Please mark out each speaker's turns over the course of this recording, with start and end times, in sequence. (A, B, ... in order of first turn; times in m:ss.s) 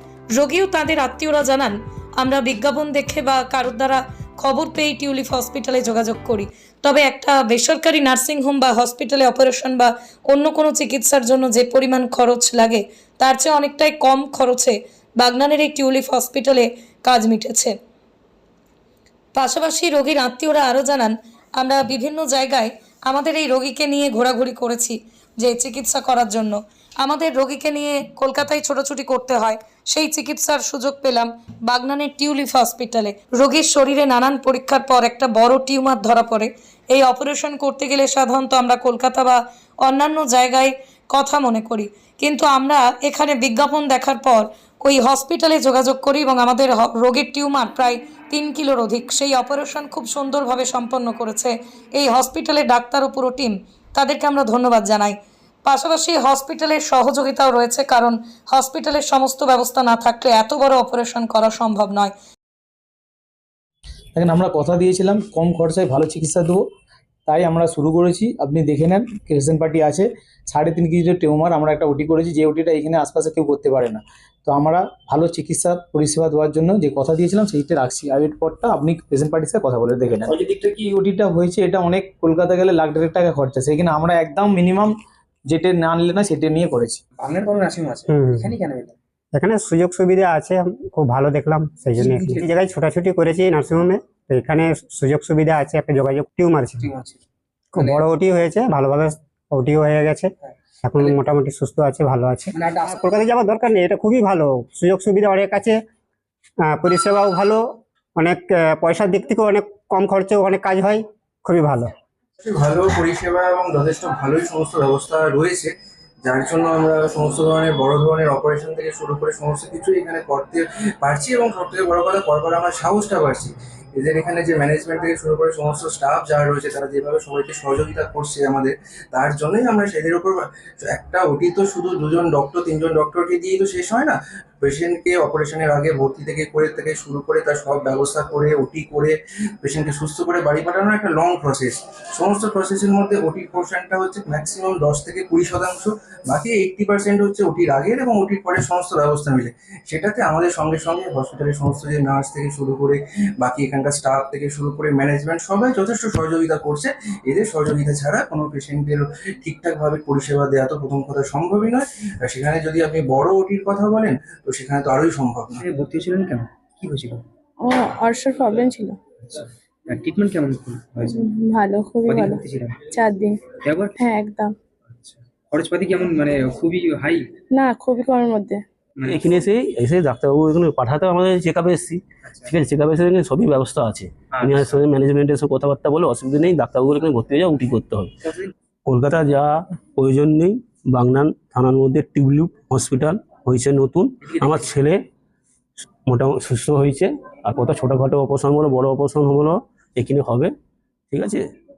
0:00.3-0:17.7 A
0:19.3-1:02.1 A
1:04.1-1:06.6 B
1:07.3-1:24.9 B
1:20.3-1:20.8 C
1:25.5-1:27.0 B
1:27.2-1:29.0 C
1:28.1-1:28.5 D
1:29.3-1:36.8 D
1:32.0-1:32.5 C
1:36.8-1:37.2 C
1:37.7-1:40.3 D
1:37.8-1:38.0 C
1:40.8-1:45.8 D
1:42.6-1:42.8 C
1:46.6-1:47.6 D
1:48.2-1:51.9 D
1:52.4-1:55.7 E
1:56.2-2:45.6 E
2:45.6-2:47.2 C
2:47.6-2:49.0 F
2:49.2-2:51.2 C
2:51.1-2:54.5 F
2:52.1-2:52.9 C
2:53.5-2:54.0 C
2:54.9-2:57.3 C
2:57.5-2:58.6 F
2:59.0-2:59.3 C
2:59.0-3:08.1 G
3:02.2-3:02.5 C
3:04.3-3:04.8 C
3:08.3-3:08.5 C
3:08.8-3:15.0 G
3:14.4-3:14.7 C
3:16.1-3:20.5 G
3:21.1-3:21.4 G